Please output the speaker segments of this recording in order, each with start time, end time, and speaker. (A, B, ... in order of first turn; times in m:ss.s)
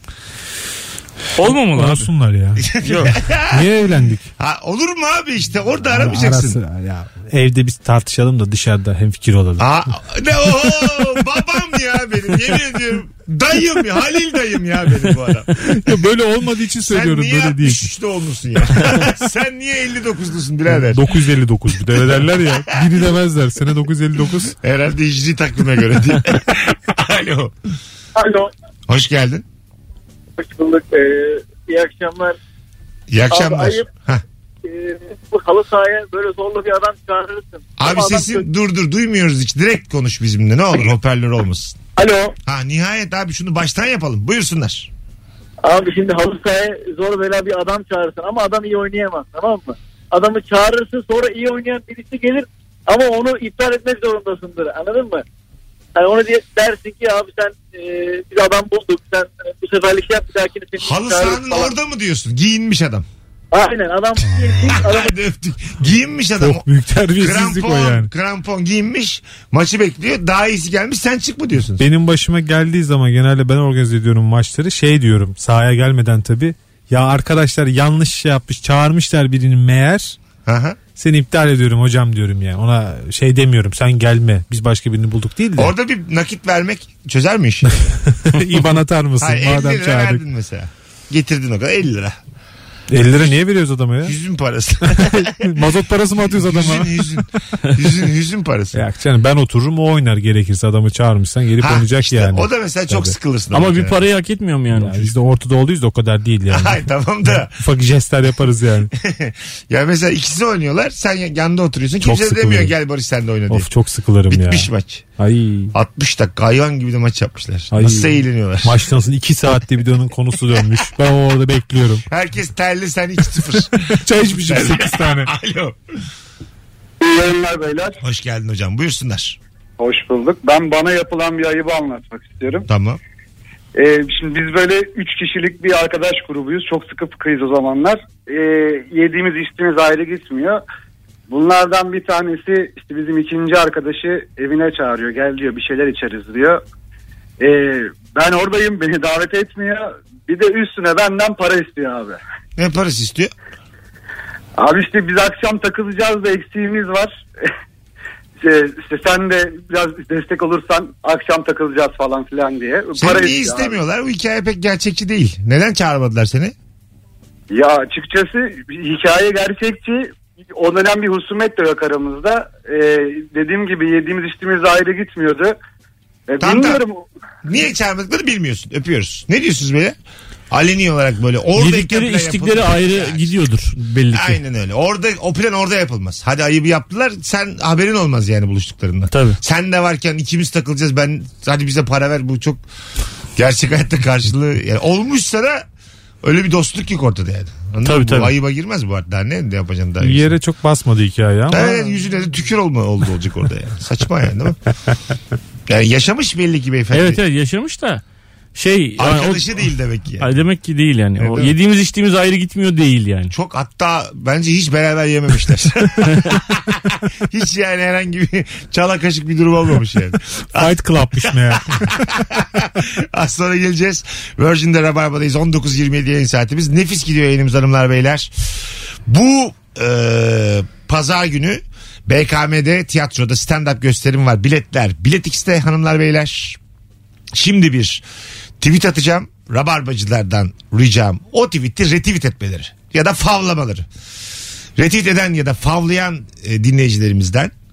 0:01.4-0:02.1 A
0:01.7-0:02.7 B
0:02.6-0:03.6 C
0:03.5-0:04.3 B
0:04.4-0:06.6 C
0:05.9-0:09.6 B
0:09.6-0:15.5 C
0:15.7-0:17.8 B
0:16.8-0:21.0 C
0:20.7-0:24.5 B
0:22.1-0:22.8 C
0:24.6-0:27.5 C
0:28.2-0:28.5 D
0:28.9-0:29.4 C
0:30.4-0:32.4 D
0:33.1-0:34.2 C
0:33.3-0:33.8 D
0:34.6-0:38.4 D
0:37.8-0:41.8 C
0:42.0-0:42.3 D
0:42.4-0:44.9 C
0:45.6-0:55.2 D
0:56.0-1:01.7 D
1:00.8-1:03.0 C
1:03.5-1:05.1 D
1:04.3-1:04.7 B
1:04.7-1:06.6 C
1:06.4-1:08.1 B
1:07.2-1:11.8 C
1:11.8-1:20.2 B
1:20.4-1:20.8 C
1:21.0-1:25.7 B
1:25.6-1:27.8 C
1:28.1-1:30.2 B
1:29.2-1:32.2 C
1:32.9-1:34.1 B
1:34.0-1:35.5 C
1:34.9-1:36.9 B
1:36.2-1:38.8 C
1:38.7-1:43.1 B
1:41.6-1:44.0 C
1:43.5-1:45.1 A
1:44.7-1:46.8 B
1:46.5-1:47.6 C
1:47.5-1:48.9 B
1:49.0-1:53.7 C
1:52.0-1:52.7 B
1:53.5-1:55.7 B
1:54.3-1:55.0 C
1:55.7-1:58.8 C
1:57.7-2:02.0 B
2:02.1-2:05.8 C
2:04.0-2:05.3 B
2:07.0-2:08.0 E
2:08.0-2:09.4 C
2:09.8-2:12.6 E
2:12.7-2:13.0 C
2:13.7-2:20.6 E
2:21.3-2:26.6 E
2:27.4-2:32.2 E
2:32.6-2:33.3 C
2:34.6-2:37.2 E
2:38.4-2:43.8 E
2:43.0-2:46.5 C
2:47.5-2:55.6 E
2:56.3-2:57.1 E
2:56.4-2:56.8 C
2:57.4-3:00.0 C
3:00.5-3:03.4 C
3:01.6-3:04.4 A
3:04.1-3:12.6 C
3:09.1-3:09.4 A
3:13.4-3:15.6 C
3:16.2-3:20.3 C
3:17.8-3:18.3 A
3:20.0-3:21.9 B
3:21.5-3:24.6 C
3:25.7-3:27.2 C
3:26.9-3:28.0 A
3:28.5-3:29.4 A
3:29.0-3:30.4 C
3:30.2-3:33.3 A
3:31.2-3:31.5 C
3:33.3-3:41.2 C
3:36.0-3:36.3 A
3:40.5-3:42.0 B
3:41.8-3:48.3 C
3:49.1-3:56.6 C
3:57.3-3:58.0 C
3:58.6-4:03.8 C
4:04.8-4:07.5 C